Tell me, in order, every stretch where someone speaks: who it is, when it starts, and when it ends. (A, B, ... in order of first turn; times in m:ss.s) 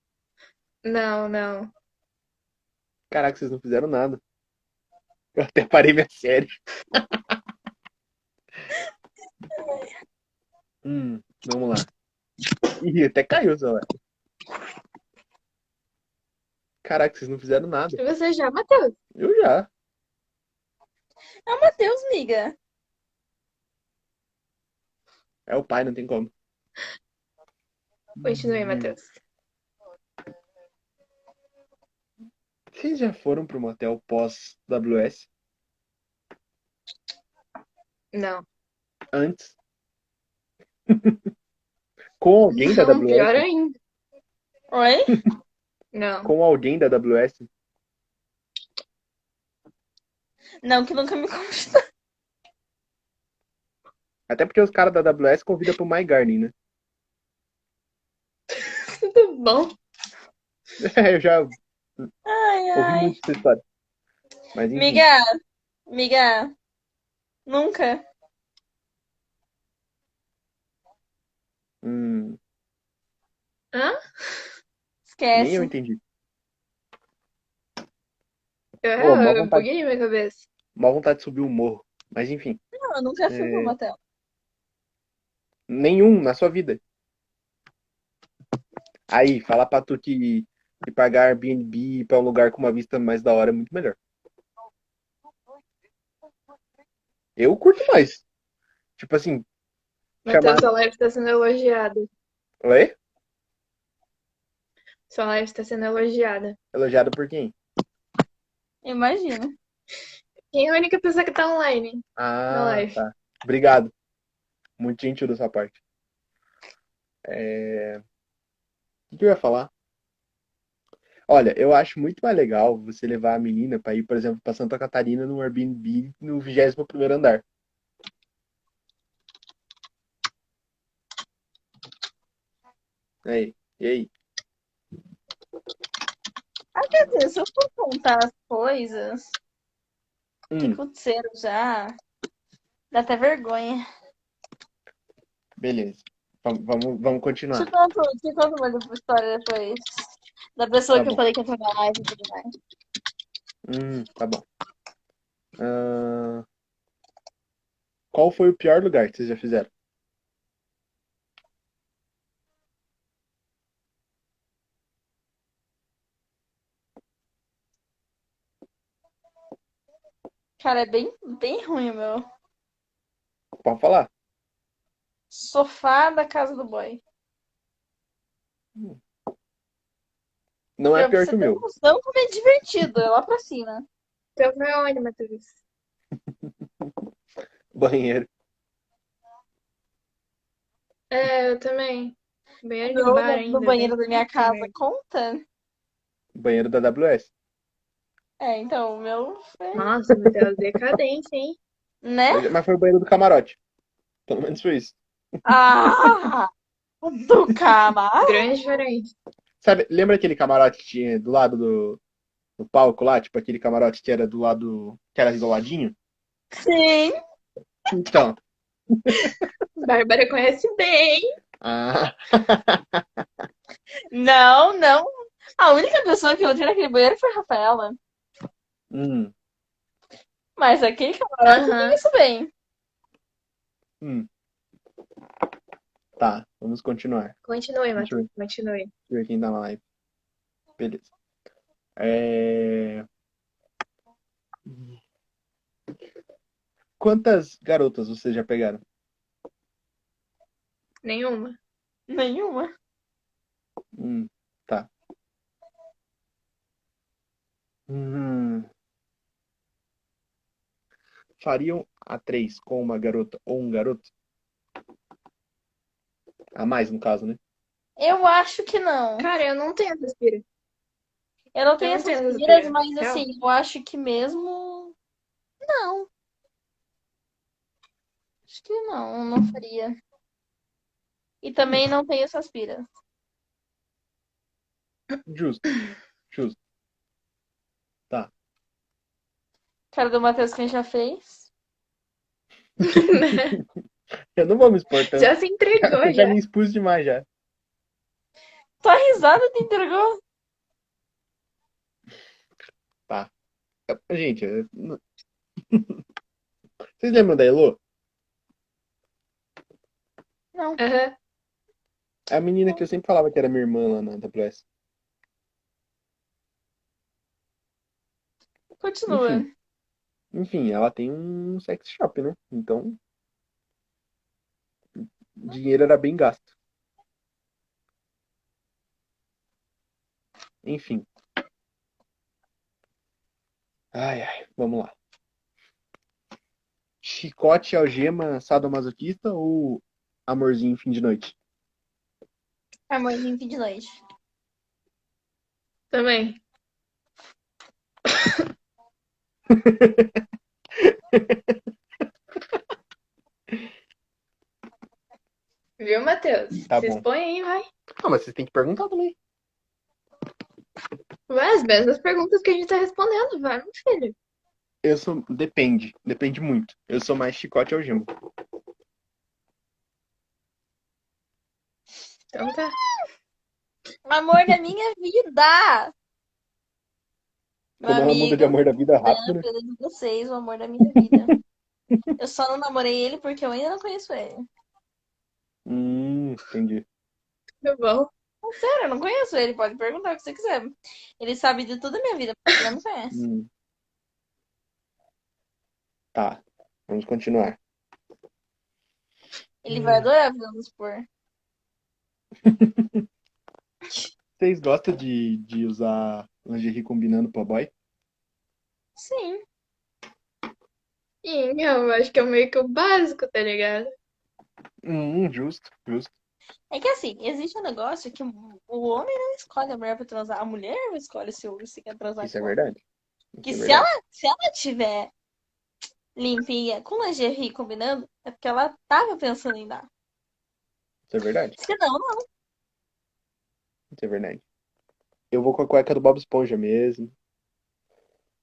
0:00.8-0:01.7 A
0:03.1-0:04.2 B
0:05.4-0:07.0 B
0:09.5-0:10.0 C
0:10.8-0:11.9 B
0:12.8-0:13.8 B
0:16.8-0:18.0 B
0:18.0-0:19.0 A
0:19.2-0:19.7 B
0:21.5-0:22.6 C
0:25.5-0:26.3 B
0:28.2-0:28.9 B
0:28.2-0:29.1 A
0:32.7-0:35.3 B
0:38.1-0:38.4 A
0:39.1-0:39.6 B
0:40.9-0:41.2 B
0:42.2-0:43.5 B
0:42.5-0:43.8 A
0:44.7-0:45.2 C
0:45.9-0:46.3 A
0:46.2-0:47.5 B
0:50.6-0:51.8 C
0:54.3-0:56.5 B
0:58.5-0:59.8 A
1:00.8-1:02.1 B
1:02.3-1:03.2 C
1:02.8-1:03.6 B
1:04.5-1:05.0 B
1:04.8-1:05.3 C
1:05.9-1:06.5 C
1:07.5-1:08.0 C
1:11.8-1:12.4 B
1:13.7-1:14.5 A
1:15.1-1:15.7 C
1:15.3-1:16.0 B
1:18.8-1:20.5 A
1:19.0-1:19.7 B
1:20.8-1:22.6 B
1:22.8-1:24.0 C
1:23.3-1:23.7 B
1:25.7-1:26.8 B
1:29.1-1:34.0 B
1:37.4-1:38.2 B
1:39.0-1:39.4 B
1:40.3-1:42.1 A
1:40.3-1:40.7 B
1:42.6-1:43.0 B
1:45.1-1:46.6 A
1:46.7-1:47.6 B
1:48.8-1:49.6 C
1:50.5-1:53.0 A
1:52.2-1:53.9 B
1:54.8-1:55.8 B
1:57.3-1:58.0 B
1:59.1-1:59.7 B
2:01.3-2:07.4 B
2:13.2-2:14.1 B
2:16.8-2:19.4 C
2:20.5-2:20.8 B
2:20.6-2:22.0 C
2:22.9-2:23.8 C
2:25.6-2:27.7 B
2:27.5-2:32.5 C
2:30.9-2:31.2 B
2:33.7-2:34.5 B
2:35.6-2:36.4 B
2:38.1-2:39.7 B
2:50.6-2:52.3 C
2:53.6-2:54.1 B
2:55.3-2:57.0 C
3:00.8-3:01.6 B
3:01.0-3:03.9 C
3:04.4-3:05.6 A
3:07.7-3:08.3 B
3:11.1-3:14.7 A
3:12.9-3:15.4 C
3:16.4-3:17.3 B
3:18.4-3:19.9 C
3:19.8-3:21.6 A
3:22.0-3:22.5 C
3:22.3-3:23.6 B
3:24.3-3:25.0 B
3:25.4-3:26.5 C
3:27.0-3:28.4 C
3:28.2-3:29.1 A
3:29.6-3:32.0 B
3:32.6-3:36.0 B
3:36.5-3:37.2 C
3:37.9-3:38.4 B
3:38.9-3:39.5 B
3:39.8-3:41.4 A
3:41.6-3:43.0 B
3:44.1-3:48.0 C
3:48.9-3:49.3 B
3:50.6-3:52.5 C
3:51.5-3:52.0 A
3:54.0-3:54.3 B
3:56.2-3:57.4 B
3:57.5-3:58.9 A
3:58.0-3:58.3 B
3:59.1-3:59.8 B
4:00.8-4:01.1 B
4:02.0-4:03.1 B
4:07.0-4:08.8 B
4:11.0-4:11.6 A
4:12.1-4:12.7 C
4:14.0-4:14.9 B
4:17.9-4:18.7 B
4:21.4-4:24.1 B
4:26.6-4:27.4 B
4:28.0-4:29.3 C
4:29.2-4:30.4 A
4:31.6-4:34.9 C
4:31.8-4:33.2 A
4:35.6-4:36.1 C
4:38.5-4:40.0 C
4:41.4-4:42.9 C
4:45.3-4:45.6 B
4:46.3-4:46.6 B
4:49.9-4:51.5 C
4:52.8-4:53.6 A
4:54.4-4:57.3 B
4:55.1-4:56.4 A
4:58.8-5:00.2 C
5:03.9-5:05.0 B
5:05.7-5:06.0 B
5:07.0-5:07.8 B
5:10.6-5:10.8 C
5:10.8-5:11.2 A
5:12.3-5:14.6 B
5:18.8-5:19.5 C
5:19.1-5:19.4 B
5:20.3-5:23.0 B
5:25.0-5:26.5 B
5:30.6-5:31.1 B
5:33.9-5:34.9 B
5:37.0-5:41.4 B
5:42.9-5:44.0 C
5:45.9-5:46.4 A
5:48.1-5:48.4 A
5:49.5-5:50.1 B
5:50.8-5:51.6 B
5:55.8-5:57.7 A
5:56.7-5:57.0 B
5:58.0-5:59.2 B
6:01.3-6:04.2 A
6:04.8-6:08.1 B
6:12.3-6:12.8 A
6:14.1-6:15.9 C
6:17.8-6:21.3 C
6:17.8-6:19.4 B
6:21.0-6:21.4 B
6:22.2-6:24.5 C
6:25.7-6:26.8 B
6:27.6-6:28.1 A
6:28.4-6:33.2 C
6:33.1-6:33.5 B
6:36.1-6:37.6 B
6:39.6-6:41.1 C
6:39.7-6:40.1 B
6:42.4-6:43.0 B
6:44.4-6:47.7 B
6:49.0-6:49.4 C
6:51.2-6:53.9 A
6:54.8-6:56.1 B
6:56.7-7:02.5 C
7:02.2-7:02.8 B
7:03.4-7:03.9 B
7:03.4-7:05.1 C
7:06.2-7:09.9 C
7:11.1-7:11.6 B
7:11.6-7:12.3 C
7:13.9-7:14.4 B
7:15.3-7:17.1 B